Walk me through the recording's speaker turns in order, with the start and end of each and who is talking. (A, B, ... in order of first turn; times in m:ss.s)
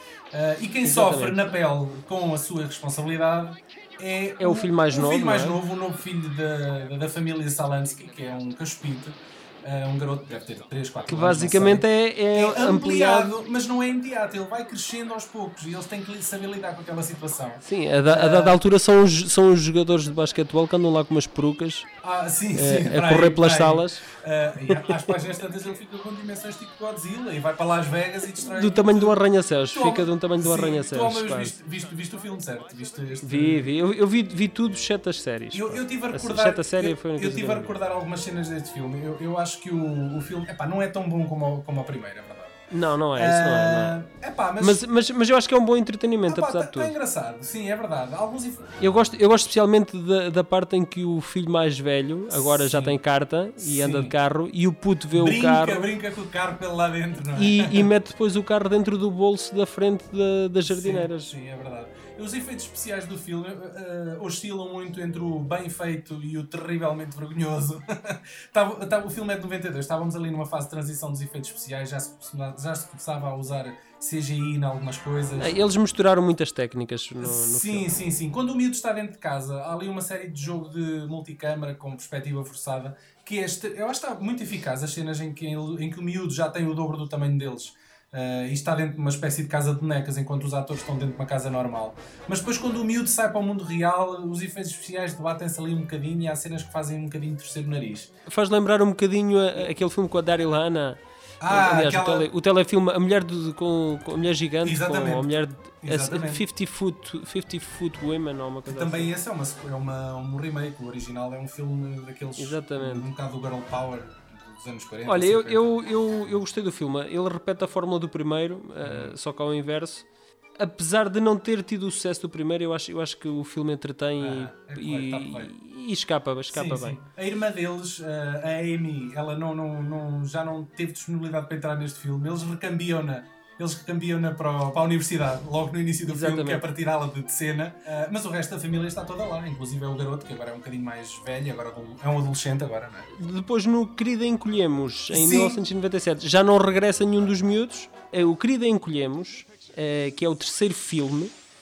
0:00.3-0:18.6 A
0:00.8-0:01.5 B
0:04.4-0:05.6 B
0:11.1-0:13.3 B
0:17.6-0:21.8 B
0:22.0-0:29.2 A
0:22.5-0:24.0 B
0:24.7-0:25.1 B
0:28.5-0:31.6 B
0:29.7-0:33.7 A
0:33.2-0:37.7 B
0:35.5-0:42.5 A
0:42.7-0:44.0 B
0:43.1-0:44.8 A
0:44.6-0:46.9 B
0:46.3-0:48.7 A
0:48.8-0:55.8 B
0:52.3-0:53.0 A
0:53.6-0:54.1 A
0:55.1-0:57.9 A
0:57.3-1:01.3 B
1:00.6-1:15.6 A
1:15.4-1:17.9 B
1:17.2-1:38.1 A
1:38.2-1:49.1 B
1:41.4-1:42.3 A
1:44.6-1:46.4 A
1:48.7-1:55.6 A
1:52.4-1:53.1 B
1:55.0-2:00.0 B
1:58.8-1:59.2 A
2:00.6-2:07.0 B
2:04.2-2:05.5 A
2:06.5-2:23.1 A
2:16.0-2:16.6 B
2:23.1-2:31.3 B
2:25.1-2:25.6 A